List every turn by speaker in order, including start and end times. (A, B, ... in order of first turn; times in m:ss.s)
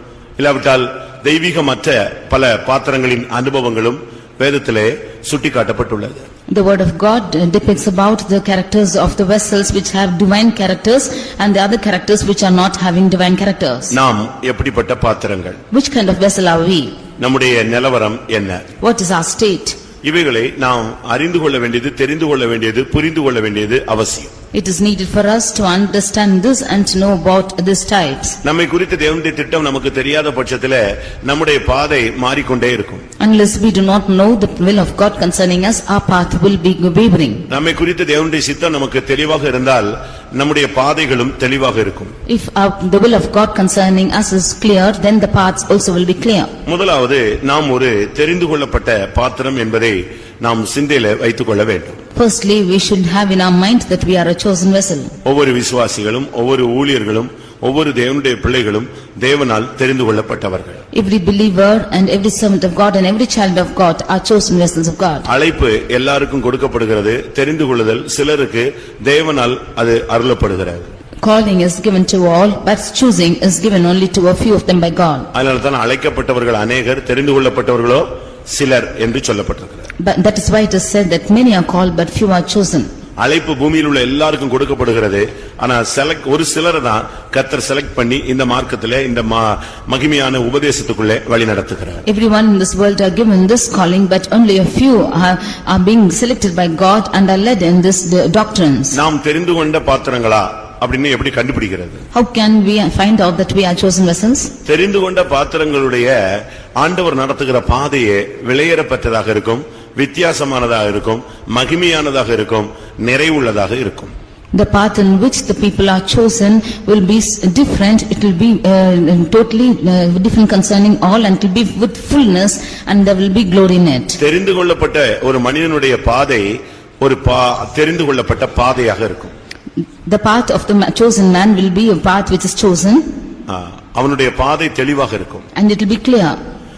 0:00.4-0:06.2 A
0:06.5-0:13.9 B
0:13.9-0:15.6 A
0:15.7-0:17.0 B
0:17.2-0:18.7 A
0:18.8-0:19.8 B
0:20.0-0:24.3 A
0:24.5-0:28.4 B
0:28.4-0:33.0 A
0:33.2-0:37.5 B
0:37.5-0:42.1 A
0:42.3-0:46.5 B
0:46.6-0:52.0 A
0:52.1-0:55.1 B
0:55.2-1:00.8 A
1:00.9-1:05.2 B
1:05.2-1:10.9 A
1:11.2-1:15.3 B
1:15.3-1:19.9 A
1:20.0-1:22.9 B
1:23.2-1:32.0 A
1:32.0-1:39.0 B
1:38.9-1:42.0 A
1:42.1-1:44.5 B
1:44.6-1:54.1 A
1:54.5-2:04.2 B
2:04.2-2:09.3 A
2:10.0-2:13.0 B
2:13.5-2:15.4 A
2:15.6-2:16.4 B